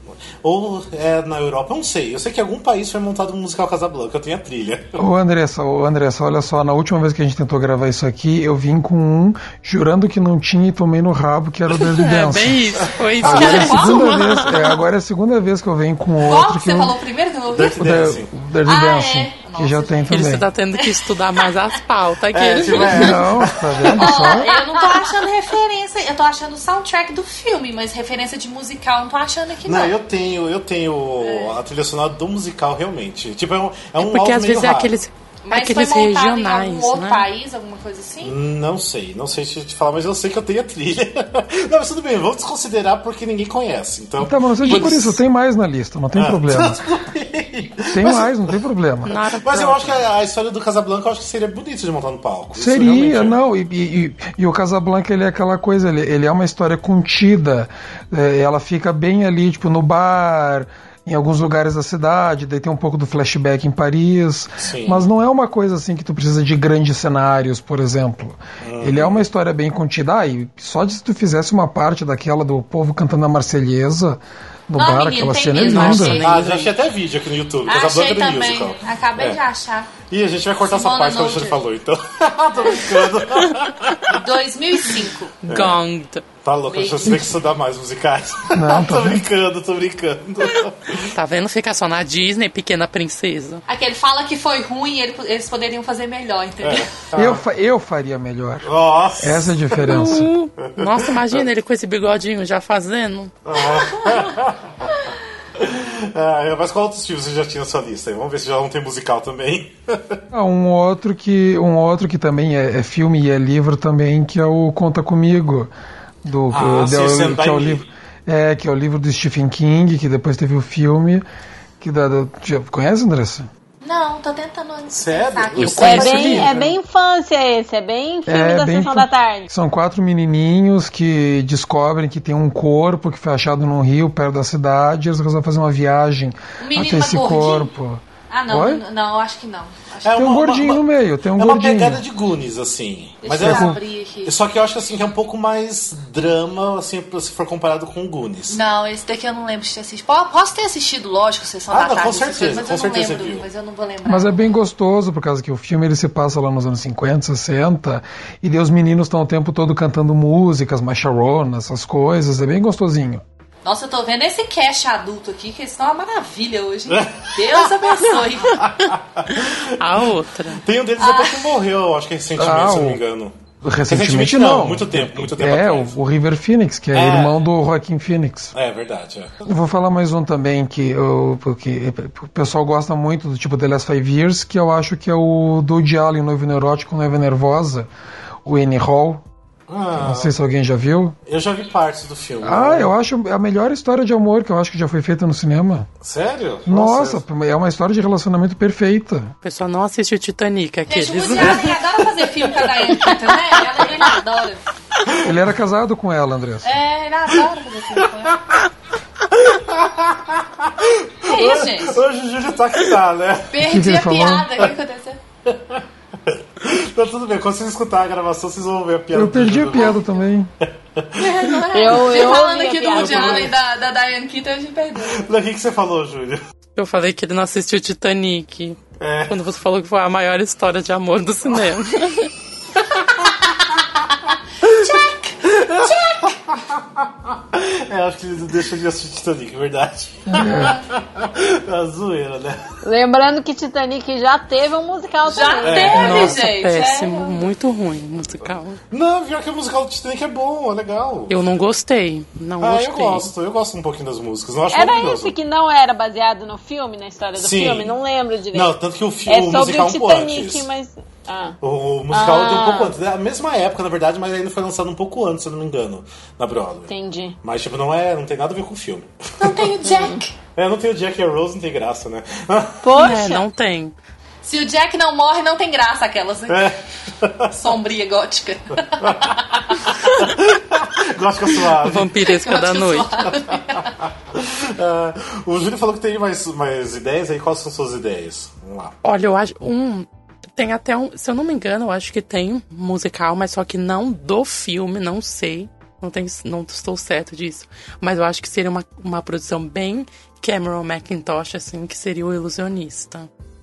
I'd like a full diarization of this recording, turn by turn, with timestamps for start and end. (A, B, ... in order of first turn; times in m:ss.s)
0:00.4-0:05.0 A
0:05.0-0:12.6 B
0:11.9-0:14.8 C
0:13.2-0:17.0 B
0:13.2-0:14.4 D
0:16.2-0:18.0 D
0:17.5-0:18.3 A
0:17.8-0:20.5 B
0:18.6-0:20.0 D
0:20.1-0:23.2 C
0:20.8-0:21.1 D
0:22.3-0:24.2 A
0:22.8-0:24.5 B
0:24.0-0:30.0 D
0:29.6-0:35.0 A
0:31.2-0:31.6 D
0:34.0-0:37.3 C
0:35.4-0:38.4 D
0:38.2-0:45.2 A
0:44.2-0:46.8 B
0:44.7-0:45.1 C
0:46.2-0:48.4 A
0:47.9-0:49.2 B
0:49.0-0:50.1 C
0:49.3-0:53.4 A
0:52.5-1:16.2 B
1:04.6-1:05.1 A
1:08.6-1:09.2 A
1:14.8-1:16.4 D
1:15.5-1:16.8 C
1:16.2-1:19.4 A
1:17.7-1:19.9 D
1:20.0-1:24.2 A
1:20.6-1:21.6 D
1:24.1-1:25.4 D
1:25.4-1:26.2 C
1:25.5-1:25.8 A
1:26.4-1:31.1 A
1:26.7-1:27.3 D
1:28.6-1:29.3 B
1:31.1-1:33.6 C
1:33.7-1:36.9 D
1:36.6-1:37.4 A
1:37.2-1:40.3 B
1:38.6-1:41.2 A
1:39.8-1:43.4 C
1:43.4-1:44.9 A
1:45.6-1:50.2 A
1:50.3-1:55.7 B
1:56.2-2:01.2 B
1:56.5-1:57.9 A
2:01.8-2:03.5 B
2:03.8-2:06.5 D
2:04.9-2:06.8 A
2:05.7-2:09.5 E
2:08.3-2:18.8 B
2:16.6-2:17.7 D
2:18.3-2:20.2 D
2:20.0-2:20.8 A
2:20.2-2:22.0 B
2:21.4-2:28.6 A
2:23.2-2:24.4 D
2:23.4-2:23.8 B
2:28.5-2:34.4 D
2:31.7-2:33.5 A
2:34.1-2:43.2 B
2:43.6-2:48.6 D
2:46.9-2:49.8 A
2:49.5-2:50.6 C
2:50.6-2:53.4 A
2:51.0-2:51.5 D
2:52.4-2:53.0 B
2:53.6-2:58.6 B
2:53.9-2:56.0 A
2:56.9-2:57.4 A
2:58.6-2:59.5 A
2:59.5-3:07.9 B
3:08.4-3:09.2 B
3:09.7-3:10.3 A
3:10.0-3:11.2 B
3:11.3-3:12.9 A
3:12.4-3:15.9 B
3:16.0-3:17.2 A
3:16.7-3:19.3 B
3:19.4-3:21.6 C
3:20.9-3:24.6 D
3:25.0-3:25.4 A
3:25.2-3:26.7 B
3:26.6-3:28.4 D
3:28.0-3:28.4 A
3:29.3-3:33.6 A
3:31.2-3:32.0 D
3:33.5-3:35.2 D
3:33.6-3:34.5 B
3:35.5-3:40.0 A
3:39.1-3:40.5 B
3:40.7-3:41.3 A
3:41.1-3:45.3 D
3:41.7-3:43.5 E
3:42.9-3:43.5 A
3:45.1-3:46.4 A
3:46.8-3:52.3 C
3:49.0-3:49.4 A
3:54.6-3:56.4 D
3:55.5-4:02.6 A
4:00.3-4:00.8 B
4:02.8-4:06.2 E
4:05.3-4:07.4 D
4:05.6-4:06.4 A
4:05.9-4:08.8 C
4:08.9-4:11.4 A
4:11.3-4:13.3 C
4:12.6-4:15.4 A
4:14.7-4:21.6 E
4:17.4-4:18.0 A
4:18.5-4:20.7 A
4:21.6-4:26.9 A
4:22.1-4:23.0 E
4:26.9-4:27.4 E
4:27.4-4:29.7 A
4:29.4-4:30.4 D
4:30.6-4:33.0 A
4:32.8-4:33.4 E
4:32.9-4:34.0 C
4:34.4-4:36.8 D
4:36.5-4:37.5 A
4:37.5-4:40.0 D
4:39.0-4:42.2 A
4:41.7-4:43.2 C
4:42.2-4:43.9 D
4:44.3-4:49.0 A
4:49.0-5:03.3 C